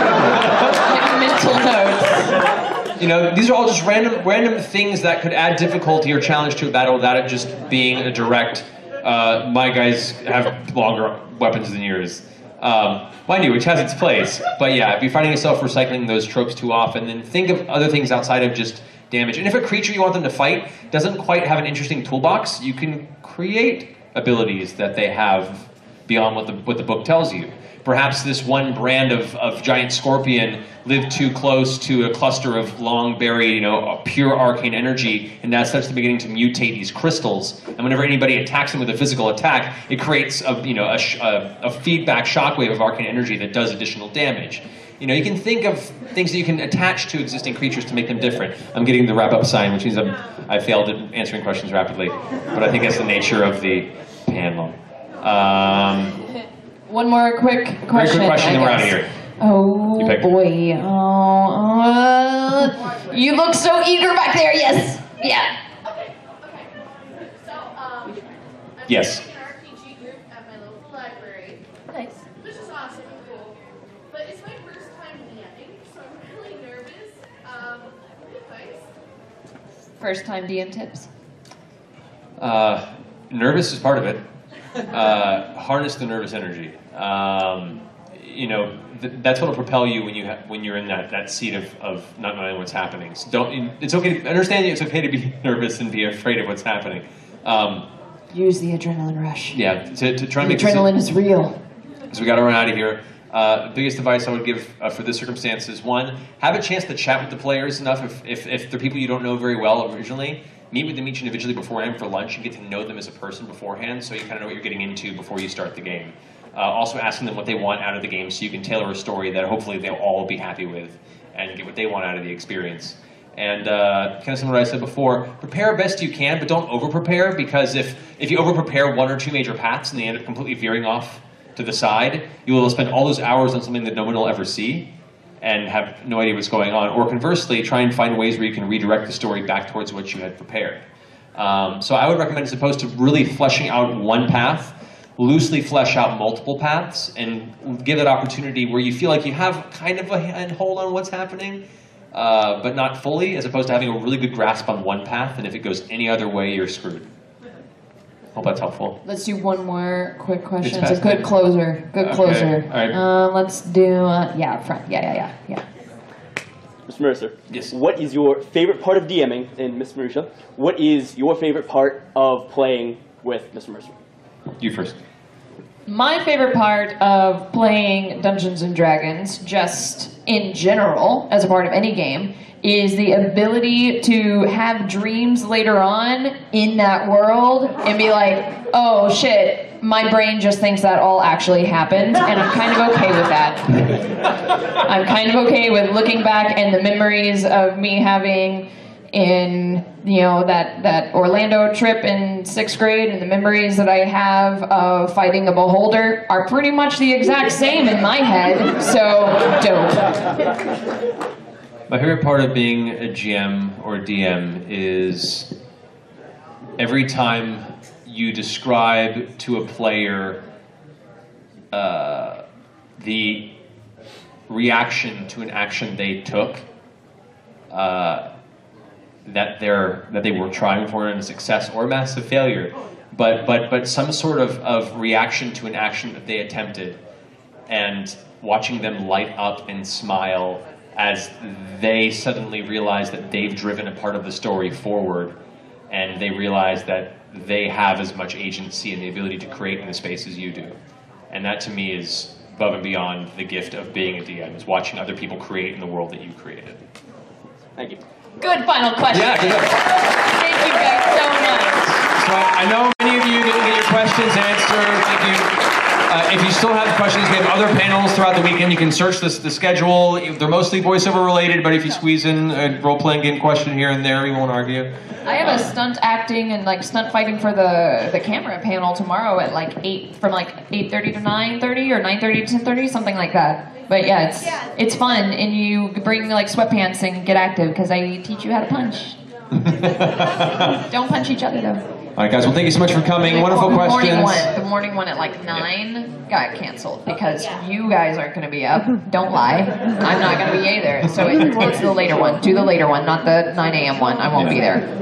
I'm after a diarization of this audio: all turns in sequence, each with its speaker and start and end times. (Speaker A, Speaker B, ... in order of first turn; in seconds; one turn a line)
Speaker A: 0.2-0.8
Speaker B: 0.7-2.4
Speaker A: 3.0-56.2
Speaker B: 56.9-65.5
Speaker A: 57.9-59.1
Speaker A: 60.0-60.2
Speaker C: 65.9-66.7
Speaker C: 67.4-71.6
Speaker A: 68.9-69.2
Speaker C: 72.4-73.5
Speaker C: 74.1-78.8
Speaker B: 80.0-81.1
Speaker A: 82.4-84.2
Speaker A: 84.8-97.9
Speaker B: 98.3-99.6
Speaker A: 99.5-100.9
Speaker B: 100.4-101.6
Speaker A: 102.1-134.9
Speaker A: 135.4-140.8
Speaker A: 141.3-157.1
Speaker A: 158.3-159.0
Speaker B: 159.0-165.7
Speaker A: 160.6-161.3
Speaker A: 162.0-163.0
Speaker D: 166.9-173.9
Speaker A: 174.6-175.0
Speaker B: 175.9-194.1
Speaker B: 194.8-210.2
Speaker A: 211.9-215.5
Speaker A: 216.8-220.4
Speaker A: 221.7-222.4
Speaker A: 223.0-223.5
Speaker A: 224.5-226.7
Speaker A: 227.7-228.3
Speaker A: 229.2-237.0
Speaker A: 237.7-245.3
Speaker A: 245.9-250.8
Speaker A: 251.3-256.8
Speaker D: 257.8-258.0
Speaker B: 258.4-262.0
Speaker A: 259.1-259.9
Speaker A: 261.9-274.9
Speaker B: 275.2-289.2
Speaker A: 289.5-290.8
Speaker B: 290.9-291.8
Speaker A: 292.2-294.5
Speaker B: 293.2-304.9
Speaker A: 301.3-301.7
Speaker A: 304.3-304.7